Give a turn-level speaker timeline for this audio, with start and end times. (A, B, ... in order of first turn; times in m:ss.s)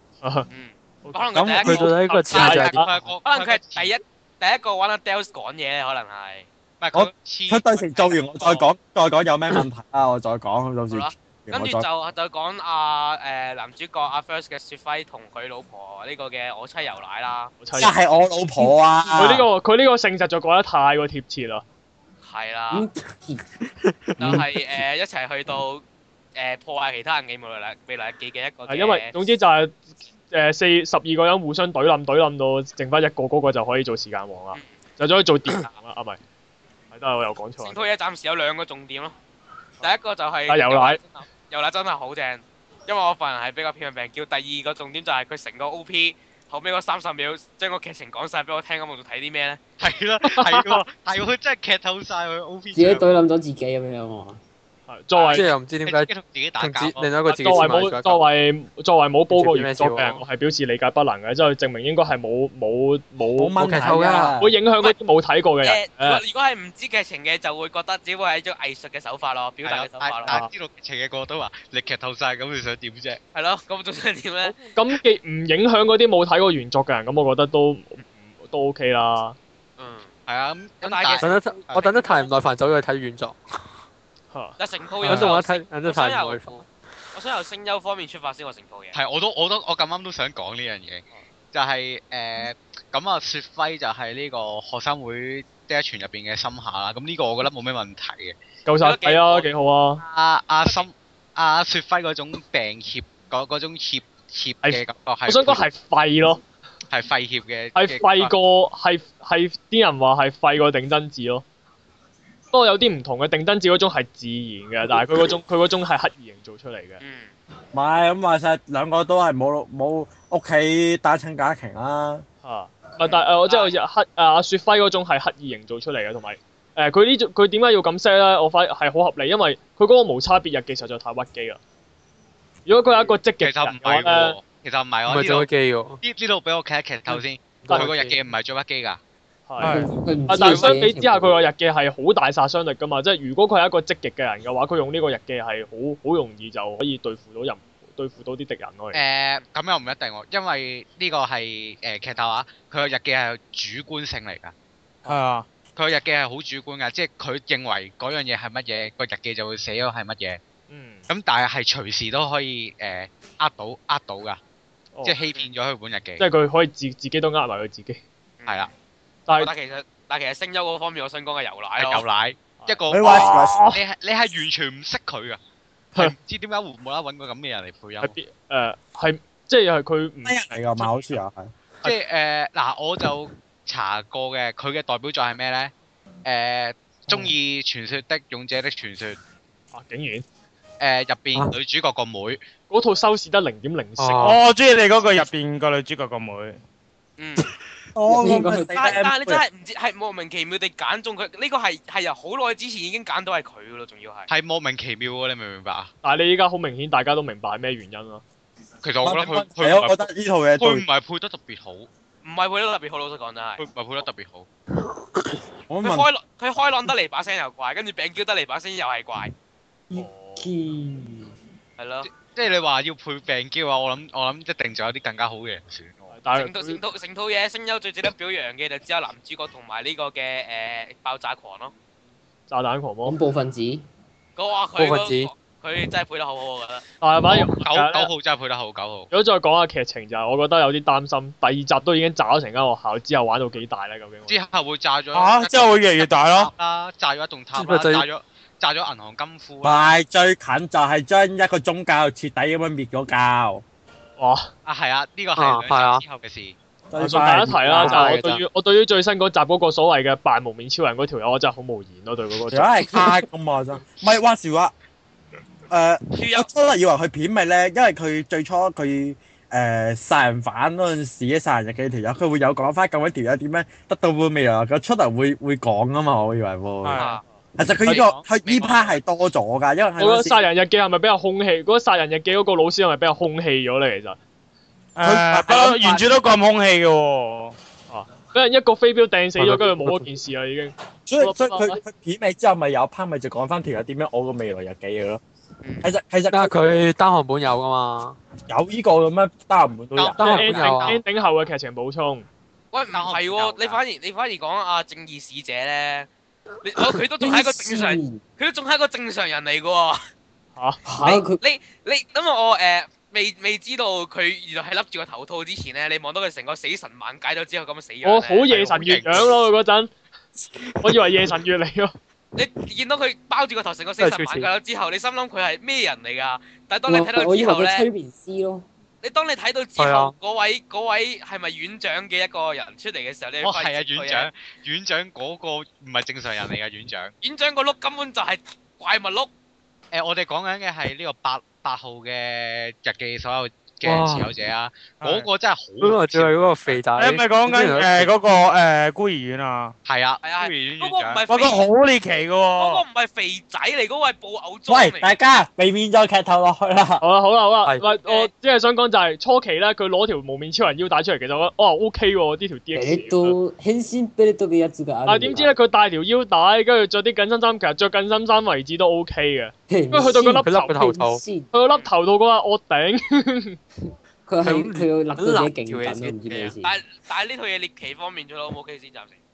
0:00.2-0:00.5 A
0:00.5-0:06.5 B
0:01.0-0:02.9 A
0:01.3-0:01.7 C
0:01.6-0:02.8 D
0:02.3-0:03.9 E
0:06.8-0:08.1 E
0:06.9-0:11.8 C
0:08.4-0:08.6 B
0:10.9-0:17.5 B
0:17.6-0:18.0 A
0:17.7-0:19.4 C
0:19.2-0:21.6 A
0:22.2-0:22.9 B
0:22.7-0:23.4 F
0:23.8-0:24.5 D
0:24.2-0:25.8 B
0:26.4-0:29.1 B
0:28.7-0:36.2 A
0:36.9-0:37.8 A
0:37.6-0:39.2 B
0:39.8-0:49.6 B
0:40.5-0:41.0 A
0:49.8-0:53.1 E
0:50.3-0:50.8 A
0:52.7-0:54.4 F
0:54.9-0:55.5 A
0:55.2-0:55.4 B
0:55.3-0:58.2 D
0:55.8-0:57.1 E
0:57.0-1:06.2 A
0:59.3-1:00.2 D
1:03.4-1:04.5 C
1:03.8-1:04.4 D
1:05.6-1:10.4 B
1:09.6-1:13.2 E
1:13.3-1:14.7 B
1:14.4-1:19.4 A
1:19.8-1:20.1 B
1:20.3-1:21.9 E
1:20.8-1:22.3 B
1:21.2-1:23.4 D
1:24.3-1:25.3 A
1:24.6-1:28.9 B
1:25.0-1:26.6 D
1:28.9-1:38.4 E
1:38.6-1:40.0 A
1:38.8-1:39.5 B
1:40.0-1:45.6 E
1:44.6-1:46.4 A
1:46.9-1:48.4 E
1:47.7-1:51.4 A
1:52.5-1:57.0 A
1:57.0-1:57.3 B
1:57.7-2:02.2 C
2:02.4-2:11.6 A
2:03.0-2:03.8 B
2:12.6-2:14.4 A
2:13.4-2:15.5 E
2:15.0-2:16.0 D
2:16.0-2:19.0 E
2:17.7-2:18.2 A
2:19.5-2:29.0 A
2:19.6-2:19.9 G
2:19.6-2:21.4 F
2:20.4-2:20.7 E
2:28.9-2:34.5 E
2:35.0-2:35.5 G
2:35.8-2:40.4 E
2:40.7-2:41.0 A
2:41.1-2:44.4 E
2:45.0-2:46.2 E
2:46.2-2:48.0 A
2:49.4-2:52.0 B
2:51.8-2:55.4 E
2:52.6-2:53.8 A
2:52.9-2:53.6 C
2:56.0-2:58.1 E
2:58.0-3:01.2 A
3:00.2-3:01.5 C
3:01.8-3:05.7 E
3:06.2-3:09.2 E
3:09.7-3:10.2 A
3:10.8-3:12.4 E
3:12.7-3:14.3 A
3:14.0-3:14.4 D
3:14.2-3:16.6 G
3:17.2-3:17.5 B
3:17.9-3:19.4 C
3:18.1-3:19.0 F
3:18.7-3:24.3 B
3:24.3-3:25.9 E
3:26.0-3:28.2 A
3:28.8-3:30.1 E
3:29.0-3:30.8 C
3:30.6-3:31.9 E
3:32.2-3:33.6 B
3:33.6-3:34.5 E
3:35.7-3:36.1 C
3:35.8-3:39.3 B
3:39.9-3:41.3 F
3:39.9-3:40.5 A
3:41.8-3:42.1 B
3:42.0-3:46.1 E
3:46.1-3:46.8 A
3:46.3-3:51.7 B
3:52.5-3:53.2 A
3:53.0-3:53.8 F
3:54.4-3:56.8 B
3:54.8-3:55.3 D
3:57.0-3:58.1 A
3:57.3-3:59.1 E
3:59.1-4:04.4 A
4:04.3-4:09.9 E
4:05.1-4:06.5 G
4:07.5-4:08.1 D
4:09.6-4:13.6 C
4:14.2-4:14.5 A
4:14.6-4:16.6 E
4:15.4-4:16.0 D
4:16.9-4:18.2 C
4:17.0-4:22.8 A
4:17.6-4:18.4 D
4:22.5-4:24.7 C
4:25.7-4:40.4 C
4:26.1-4:26.5 B
4:36.8-4:37.1 G
4:37.0-4:37.2 B
4:37.3-4:38.0 A
4:37.9-4:38.2 E
4:37.9-4:39.0 B
4:40.0-4:44.2 A
4:45.0-4:47.5 G
4:45.0-4:46.1 C
4:47.9-4:51.8 A
4:49.4-4:50.1 D
4:51.1-4:55.2 C
4:55.6-4:55.9 B
4:55.8-4:56.6 C
4:56.3-4:58.2 D
4:58.5-5:00.5 C
5:00.0-5:01.0 E
5:00.2-5:01.0 D
5:00.2-5:02.2 A
5:02.7-5:06.1 B
5:02.9-5:03.8 E
5:06.6-5:10.0 B
5:06.8-5:08.2 F
5:10.8-5:11.4 F
5:11.0-5:18.8 B
5:18.0-5:19.9 A
5:18.5-5:19.3 E
5:20.8-5:21.9 A
5:22.3-5:27.9 B
5:24.0-5:24.5 D
5:26.9-5:28.7 F
5:29.0-5:34.3 B
5:29.8-5:30.2 D
5:33.4-5:37.1 E
5:37.2-5:39.3 B
5:39.9-5:46.8 E
5:43.8-5:44.3 D
5:45.0-5:45.3 G
5:45.8-5:48.1 D
5:47.0-5:49.7 G
5:49.8-5:51.2 E
5:50.2-5:51.6 B
5:51.3-5:52.8 G
5:52.6-5:55.1 B
5:54.7-5:57.0 C
5:57.0-6:03.4 A
5:57.9-5:58.3 B
6:02.7-6:05.5 F
6:05.0-6:10.8 A
6:09.7-6:11.5 F
6:10.4-6:11.2 D
6:11.5-6:13.6 A
6:14.3-6:16.8 F
6:14.4-6:16.5 D
6:16.6-6:19.2 B